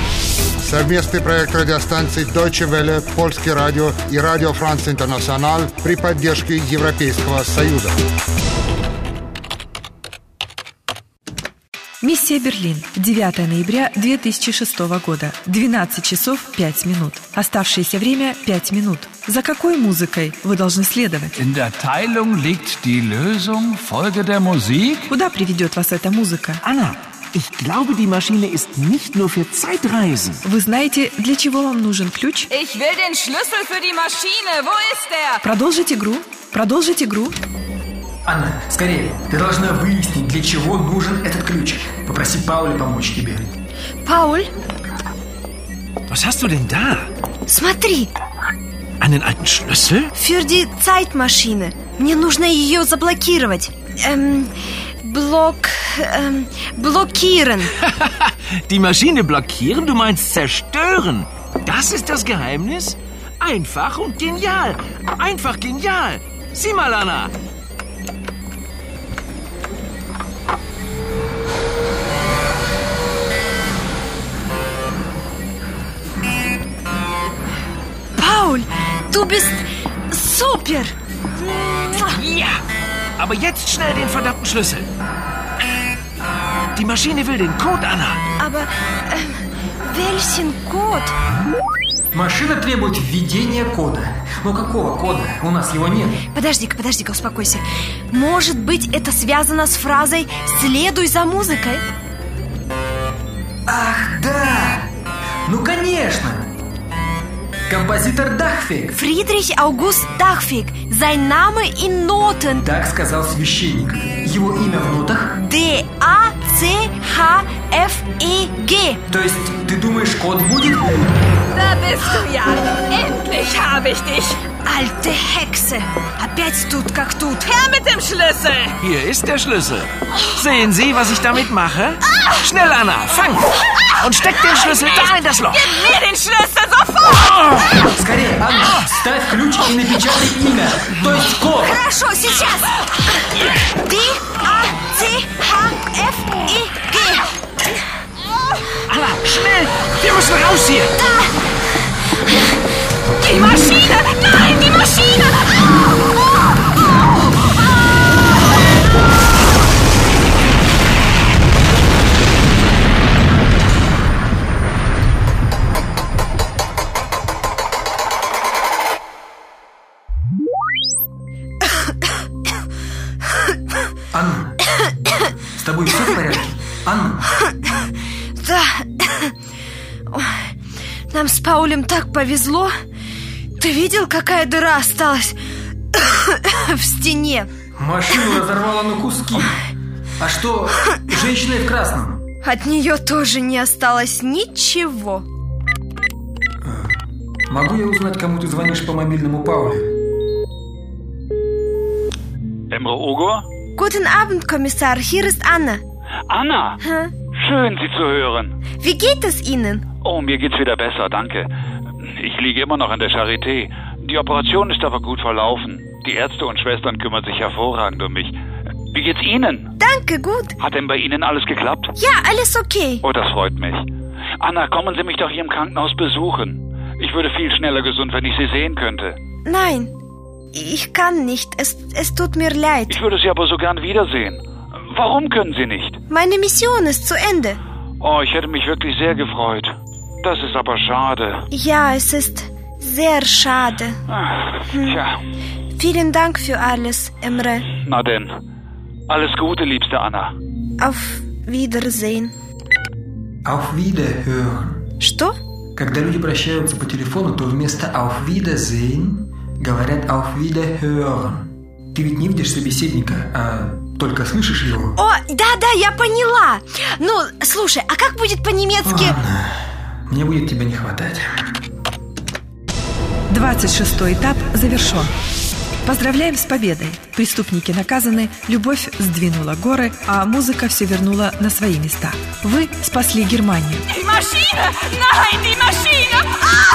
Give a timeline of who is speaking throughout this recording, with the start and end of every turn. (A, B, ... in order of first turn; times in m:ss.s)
0:00.6-0:08.0 A
0:12.0-0:21.3 B
0:21.4-0:25.0 C
0:25.1-0:26.6 B
0:26.6-0:30.4 D
0:30.4-0:32.5 B
0:32.5-0:35.4 E
0:35.4-0:37.3 B
0:38.2-0:43.5 F
0:44.0-0:44.5 G
0:46.1-0:47.1 D
0:47.5-0:48.1 G
0:49.0-0:50.1 D
0:50.1-0:54.5 G
0:55.0-0:57.7 G
0:57.8-1:07.3 D
1:18.2-1:22.2 G
1:22.0-1:22.6 D
1:23.2-1:24.9 D
1:26.7-1:28.2 D
1:28.4-1:31.1 G
1:32.1-1:36.2 F
1:36.3-1:41.8 G
1:43.6-1:44.9 F
1:45.4-1:46.5 F
1:47.7-1:49.0 F
1:48.9-1:52.6 G
1:52.6-1:55.4 F
1:55.4-1:59.0 G
1:59.1-2:01.1 F
2:01.5-2:04.4 E
2:04.6-2:07.6 G
2:07.5-2:08.8 E
2:08.8-2:15.8 D
2:14.8-2:17.3 E
2:17.8-2:21.8 F
2:21.5-2:22.8 G
2:23.8-2:27.3 G
2:28.9-2:30.9 D
2:31.0-2:31.4 G
2:33.2-2:35.6 E
2:54.1-2:54.6 F
2:55.5-2:57.3 F
2:58.4-2:59.3 G
3:00.1-3:00.4 G
3:01.1-3:02.7 G
3:03.6-3:05.4 G
3:05.9-3:07.5 G
3:07.8-3:09.6 F
3:10.2-3:12.2 F
3:12.4-3:15.2 G
3:16.6-3:17.0 F
3:17.5-3:19.9 F
3:22.7-3:23.4 H
3:23.8-3:25.8 G
3:26.3-3:26.8 H
3:26.8-3:27.1 G
3:27.3-3:28.5 H
3:28.8-3:29.8 G
3:30.0-3:31.5 H
3:32.1-3:38.3 H
3:38.9-3:39.7 H
3:39.8-3:40.5 G
3:40.6-3:41.9 H
3:42.0-3:43.0 G
3:43.0-3:43.9 H
3:44.4-3:49.2 H
3:49.4-3:49.9 G
3:50.5-3:53.0 G
3:52.9-3:56.0 H
3:56.1-3:57.6 G
3:58.0-4:01.5 H
4:01.5-4:04.0 G
4:04.1-4:05.1 H
4:04.6-4:05.0 G
4:05.7-4:07.7 G
4:07.8-4:08.3 H
4:09.1-4:10.3 H
4:10.8-4:12.3 G
4:13.4-4:14.8 F
4:15.0-4:15.4 G
4:15.8-4:25.0 F
4:25.0-4:29.2 G
4:28.8-4:31.5 F
4:33.3-4:35.1 B
4:35.8-4:43.8 B
4:43.9-4:46.5 E